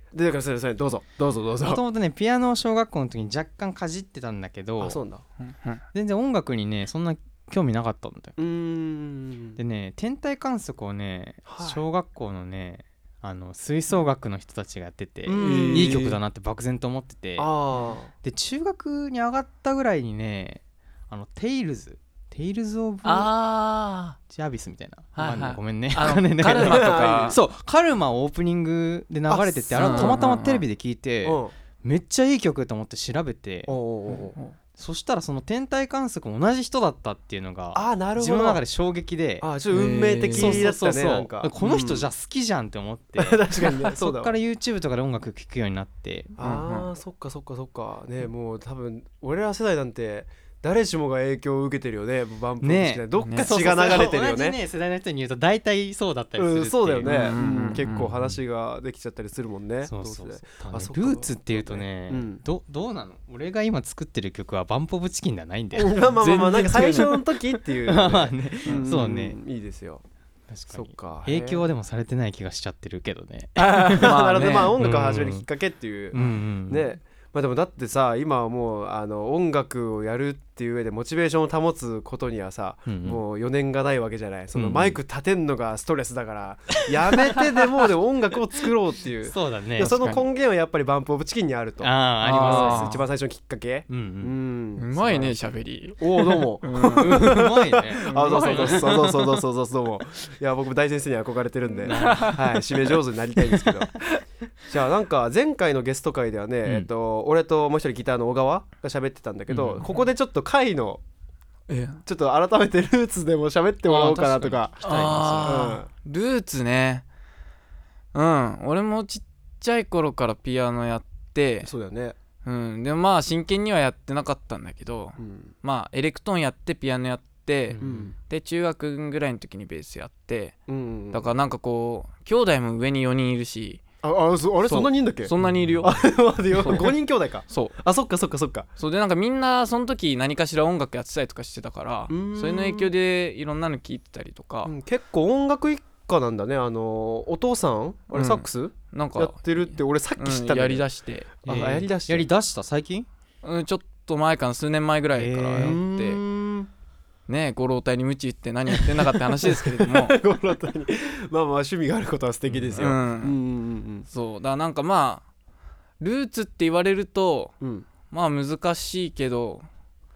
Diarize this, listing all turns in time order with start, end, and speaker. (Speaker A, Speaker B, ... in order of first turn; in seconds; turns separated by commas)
Speaker A: 0.1-1.8, Speaker B: 1.6-5.0, Speaker A: 4.8-5.2, Speaker C: 5.4-5.8, Speaker B: 5.9-8.4, Speaker A: 8.4-9.6, Speaker B: 9.6-17.5, Speaker A: 11.5-11.8, Speaker A: 15.2-16.2, Speaker C: 15.3-16.0, Speaker A: 17.4-18.1, Speaker B: 18.2-23.3, Speaker C: 23.0-24.2, Speaker B: 24.3-33.8, Speaker C: 25.1-27.4, Speaker A: 26.4-27.4, Speaker A: 29.3-30.3, Speaker C: 29.7-30.6, Speaker A: 31.2-31.5, Speaker A: 33.7-34.4, Speaker B: 34.7-39.5, Speaker A: 37.7-38.6, Speaker A: 39.4-42.1, Speaker C: 39.7-40.7, Speaker B: 40.3-46.4, Speaker A: 43.2-44.3, Speaker A: 46.4-54.6, Speaker C: 46.4-46.9, Speaker B: 52.6-58.4, Speaker C: 53.2-53.5, Speaker A: 56.4-62.4, Speaker C: 57.0-58.1, Speaker B: 59.8-66.0, Speaker A: 65.7-70.0, Speaker C: 66.2-67.2, Speaker B: 67.8-69.4, Speaker B: 70.5-75.5, Speaker A: 70.7-71.6, Speaker C: 73.6-74.8, Speaker A: 73.7-95.4, Speaker B: 76.1-76.8, Speaker B: 82.9-83.2, Speaker B: 84.5-85.0, Speaker B: 89.2-90.2, Speaker B: 91.8-93.0, Speaker C: 92.2-93.0, Speaker B: 93.9-94.3, Speaker C: 94.8-97.4, Speaker A: 96.0-104.0, Speaker B: 96.8-99.1, Speaker C: 98.0-99.2, Speaker B: 101.8-102.6, Speaker C: 101.9-102.5, Speaker A: 104.7-111.0, Speaker B: 109.5-109.9, Speaker C: 111.7-112.0, Speaker A: 112.0-115.9, Speaker B: 113.9-115.7, Speaker C: 114.8-117.0, Speaker C: 118.1-121.7, Speaker A: 121.6-122.2, Speaker C: 122.4-130.6, Speaker A: 125.2-125.5, Speaker B: 127.7-128.1, Speaker A: 127.8-128.1, Speaker A: 130.7-131.2, Speaker C: 131.1-133.8, Speaker A: 134.0-138.7, Speaker C: 134.6-136.9, Speaker B: 135.4-135.9, Speaker C: 137.5-137.7, Speaker C: 138.8-144.7, Speaker A: 142.1-142.9, Speaker A: 144.6-152.3, Speaker C: 148.1-151.3, Speaker B: 151.4-153.1, Speaker C: 153.4-156.2, Speaker B: 155.2-155.8, Speaker A: 155.5-156.7, Speaker C: 157.3-160.2, Speaker A: 159.4-164.1, Speaker B: 162.5-162.9, Speaker C: 162.8-163.4, Speaker C: 164.1-165.2, Speaker C: 166.0-167.5, Speaker A: 167.6-167.9, Speaker C: 168.1-169.7